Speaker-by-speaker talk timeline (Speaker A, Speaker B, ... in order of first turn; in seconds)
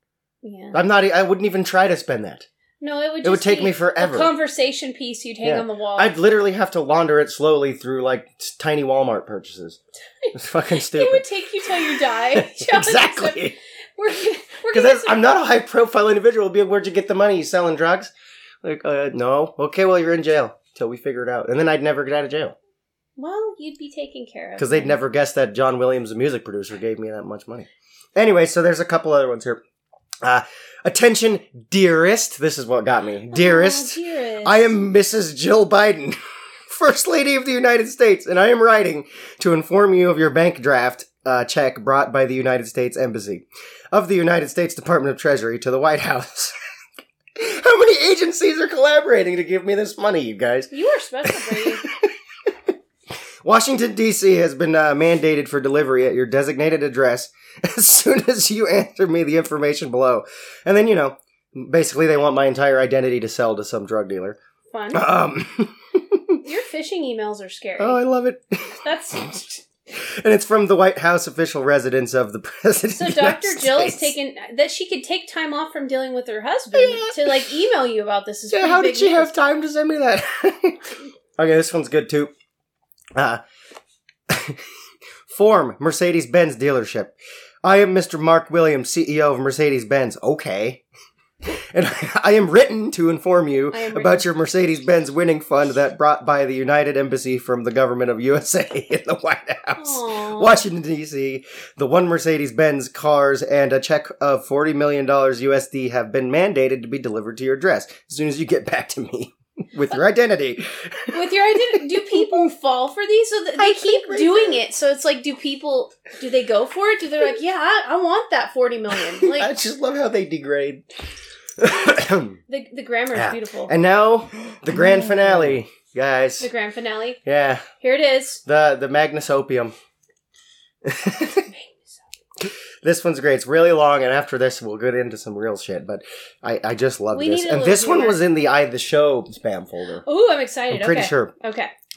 Speaker A: 0.4-0.8, 2.8-6.1, 10.2-15.2, 23.2-25.0, 33.3-34.8, 50.7-51.9, 64.7-65.1, 66.4-68.0, 68.8-69.6, 72.9-79.3, 93.7-94.2, 99.8-100.6, 111.1-119.5, 122.5-123.7, 124.8-125.1, 126.4-127.2, 127.8-128.4, 131.5-132.0, 137.1-138.2, 140.1-141.7
Speaker B: 0.7-2.5, 3.2-4.3, 5.4-9.8, 10.3-11.2, 11.8-13.6, 14.7-18.1, 18.6-22.6, 24.6-29.6, 30.2-46.5, 47.4-50.7, 51.2-52.1, 53.4-64.4, 64.9-66.4, 67.8-68.8, 69.9-74.2, 76.7-77.4, 78.5-82.3, 83.2-83.4, 84.3-84.6, 85.3-90.8, 91.5-112.4, 113.6-114.6, 119.1-120.9, 121.6-122.4, 123.1-126.5, 127.2-127.7, 128.4-129.7, 130.8-131.5, 132.4-140.0, 140.7-141.3